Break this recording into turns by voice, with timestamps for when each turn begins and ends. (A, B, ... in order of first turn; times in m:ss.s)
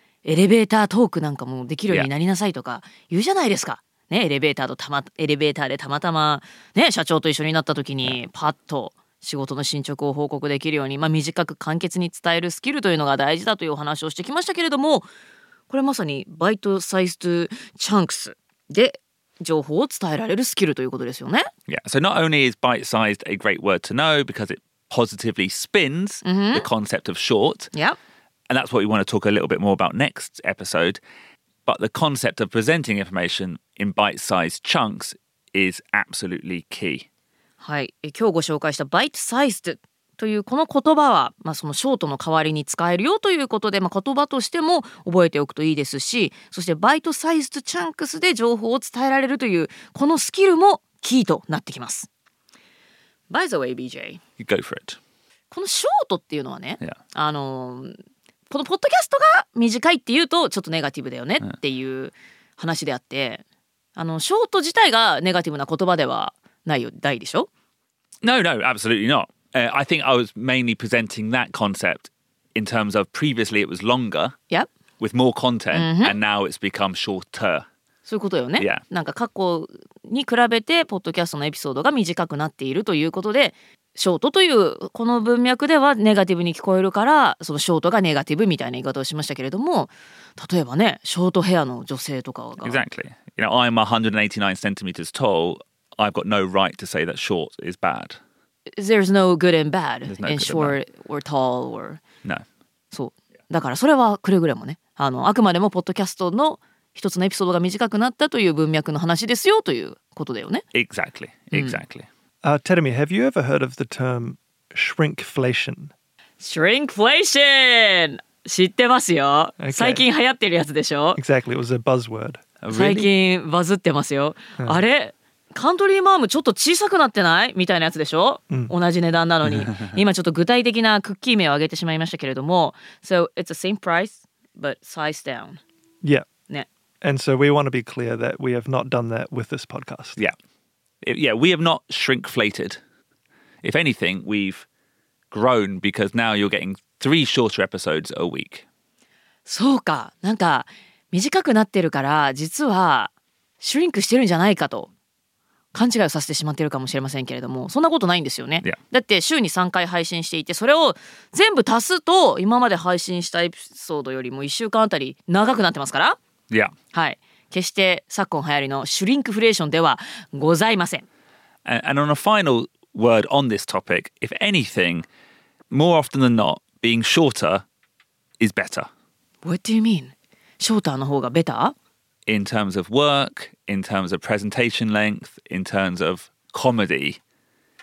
0:00.2-0:15.1 A
0:15.7-0:21.5 A
0:21.7-0:27.7 B
0:26.2-0:26.7 A
0:28.5-0:31.0 B
0:31.6-0:37.0 B
0:37.6-0:52.1 A
0:53.3-0:54.2 A
0:54.4-0:55.0 B
0:55.5-0:57.9 A
0:58.5-1:03.4 A
1:04.0-1:07.5 A
1:08.2-1:14.3 B
1:15.0-1:17.6 B
1:15.7-1:16.2 A
1:18.0-1:32.8 A
1:32.6-1:38.2 B
1:38.7-1:42.0 A
1:40.1-1:40.8 B
1:42.9-1:50.6 A
1:50.7-1:52.1 B
1:51.5-1:51.8 A
1:52.4-1:55.9 C
1:56.4-2:01.2 A
1:59.6-2:00.0 C
2:01.2-2:02.4 C
2:02.6-2:03.1 B
2:02.7-2:15.6 A
2:17.0-2:20.2 C
2:21.0-2:22.8 B
2:23.6-2:24.6 B
2:25.3-2:28.6 B
2:29.4-2:34.9 A
2:35.7-2:46.2 A
2:46.9-2:51.0 A
2:51.6-2:55.1 B
2:55.7-2:57.6 B
2:58.4-2:58.9 B
2:59.4-3:01.7 A
3:02.2-3:07.2 B